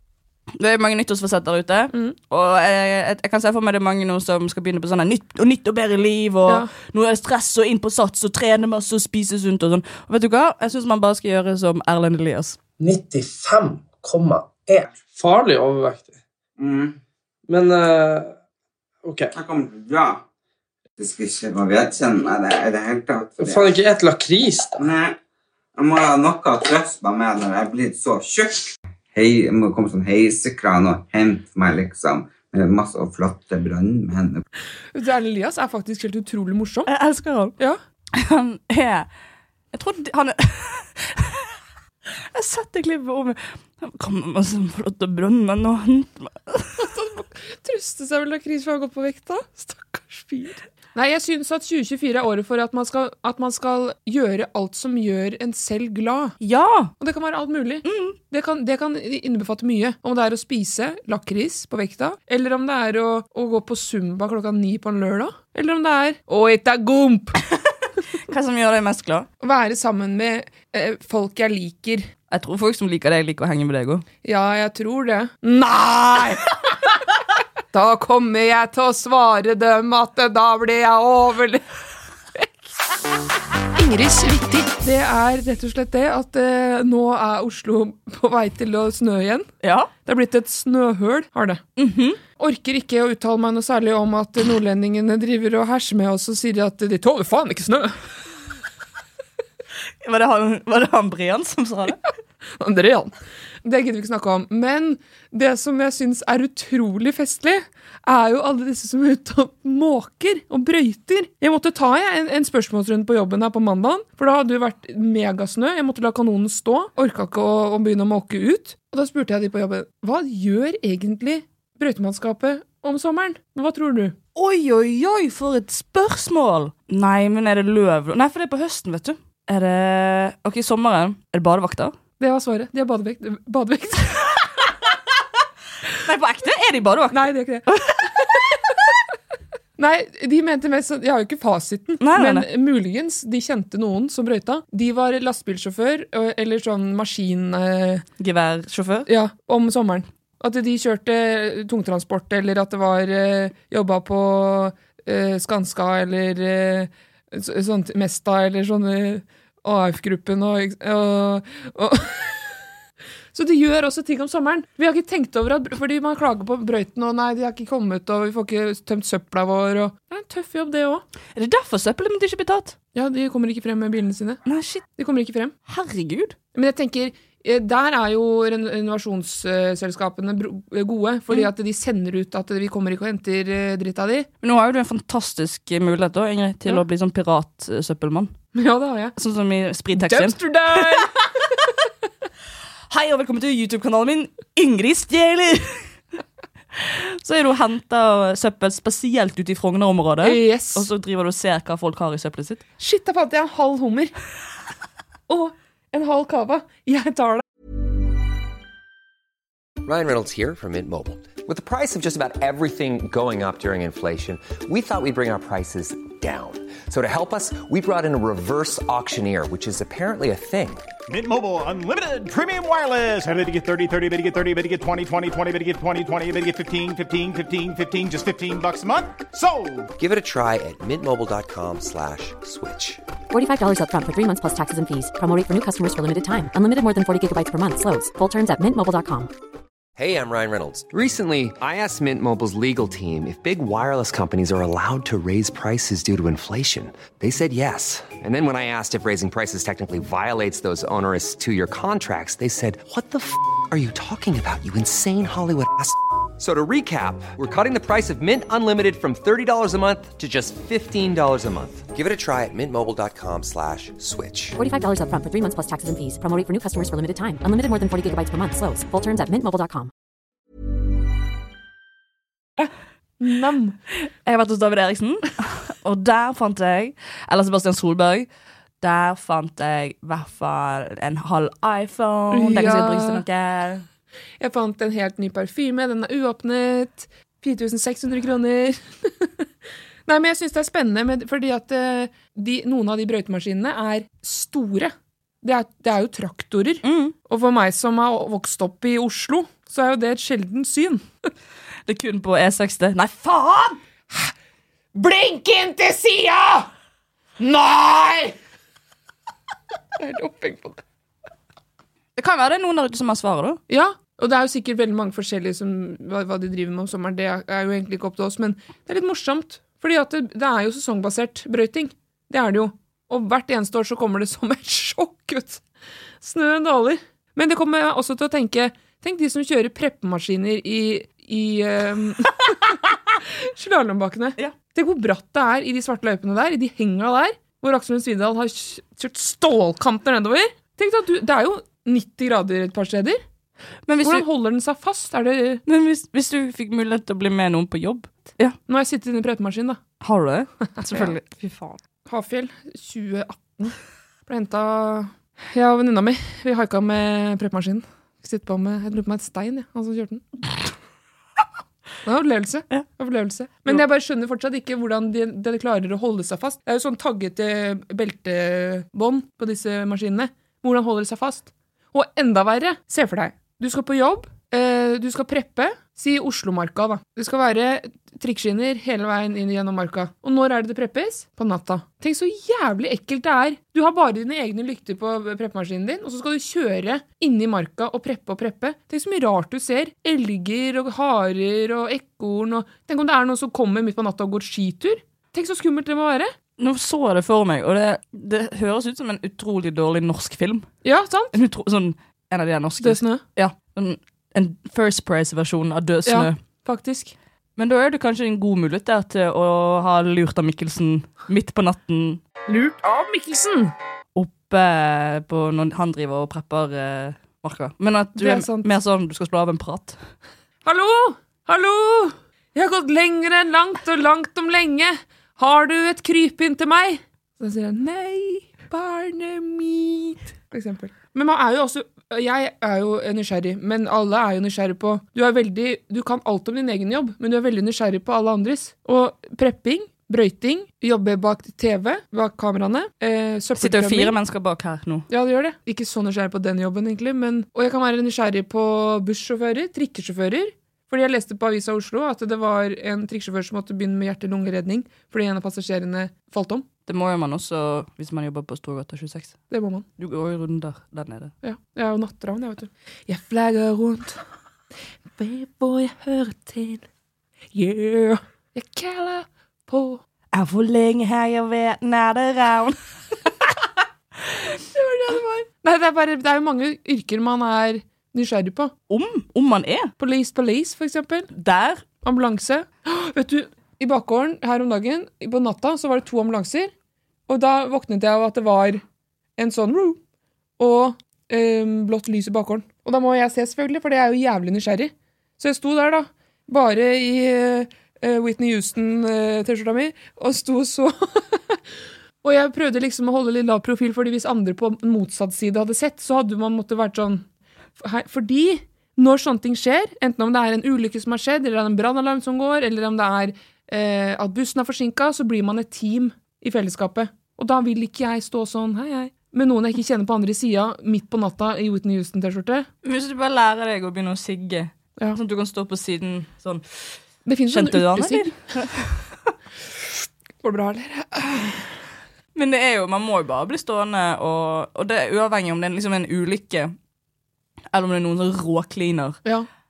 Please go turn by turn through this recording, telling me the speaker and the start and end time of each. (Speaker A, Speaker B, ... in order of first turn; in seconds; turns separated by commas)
Speaker A: 0.6-12.6, Speaker B: 12.8-16.1, Speaker C: 16.6-17.0, Speaker B: 17.5-18.3, Speaker B: 19.0-19.3, Speaker C: 19.3-20.2, Speaker C: 21.0-23.8, Speaker B: 23.4-24.8, Speaker C: 24.8-25.1, Speaker C: 25.8-34.4, Speaker D: 34.9-36.9, Speaker A: 36.9-37.5, Speaker A: 38.1-39.1, Speaker A: 39.7-41.4, Speaker A: 42.3-46.9, Speaker D: 46.8-56.3, Speaker A: 56.4-56.9, Speaker D: 57.0-67.4, Speaker A: 57.8-58.2, Speaker A: 68.2-69.3, Speaker D: 69.4-72.1, Speaker A: 72.3-74.0, Speaker D: 74.2-76.6, Speaker D: 77.7-81.6, Speaker D: 83.8-89.5, Speaker A: 89.6-89.9, Speaker D: 90.0-91.6, Speaker A: 91.8-92.2, Speaker D: 92.4-98.0, Speaker A: 100.0-102.0, Speaker D: 102.6-103.1, Speaker D: 103.6-124.1, Speaker A: 124.3-131.9, Speaker D: 132.2-134.5, Speaker A: 136.0-138.1, Speaker D: 137.1-137.7, Speaker D: 139.8-148.0, Speaker A: 142.0-142.4, Speaker A: 148.2-149.1, Speaker D: 149.1-162.5, Speaker D: 163.3-171.0, Speaker A: 171.3-172.7, Speaker D: 172.9-174.4, Speaker A: 174.4-174.8, Speaker D: 175.0-175.5, Speaker A: 175.7-176.3, Speaker D: 176.5-184.3, Speaker A: 184.4-188.3, Speaker D: 188.5-189.1, Speaker A: 189.2-191.1, Speaker D: 189.9-191.3, Speaker A: 192.9-195.8, Speaker A: 196.7-202.6, Speaker D: 200.2-200.9, Speaker D: 202.8-204.1, Speaker D: 205.3-207.4, Speaker E: 209.8-220.8, Speaker F: 221.1-229.9, Speaker E: 229.9-233.0, Speaker G: 233.3-239.3, Speaker E: 240.0-264.6, Speaker G: 264.6-269.9, Speaker D: 272.6-273.8, Speaker A: 273.9-278.3, Speaker A: 278.8-283.8, Speaker D: 282.3-283.2, Speaker D: 284.4-289.4, Speaker D: 290.1-301.0, Speaker A: 296.8-297.1, Speaker A: 301.9-303.8, Speaker D: 304.9-306.7, Speaker D: 307.4-308.3, Speaker D: 310.0-310.8, Speaker A: 312.2-313.6, Speaker D: 313.7-325.6, Speaker D: 326.2-343.2, Speaker A: 343.9-344.2, Speaker D: 344.0-345.6, Speaker A: 345.6-348.6, Speaker D: 348.7-349.8, Speaker A: 350.0-351.8, Speaker D: 352.1-353.8, Speaker D: 354.3-360.4, Speaker D: 362.0-396.3, Speaker A: 396.6-400.7, Speaker D: 400.8-401.3, Speaker A: 401.3-406.4, Speaker D: 402.8-403.2, Speaker D: 406.1-407.1, Speaker A: 407.6-412.2, Speaker D: 412.5-413.7, Speaker A: 414.1-420.0, Speaker D: 418.2-418.7, Speaker D: 420.6-444.1, Speaker A: 443.6-445.1, Speaker D: 445.1-456.6, Speaker A: 456.9-459.4, Speaker D: 459.5-459.9, Speaker A: 460.0-461.3, Speaker D: 461.4-464.2, Speaker D: 465.2-466.8, Speaker D: 467.5-470.0, Speaker A: 470.3-472.8, Speaker D: 474.7-478.7, Speaker A: 478.9-479.9, Speaker D: 480.0-481.3, Speaker A: 481.3-481.8, Speaker D: 482.0-486.7, Speaker D: 487.3-488.8, Speaker D: 489.4-490.0, Speaker D: 490.6-501.6, Speaker D: 502.2-507.2, Speaker D: 507.8-522.7, Speaker A: 522.8-526.6, Speaker D: 527.2-528.3, Speaker A: 527.5-529.0, Speaker D: 530.4-531.7, Speaker A: 532.3-536.7, Speaker A: 537.7-539.2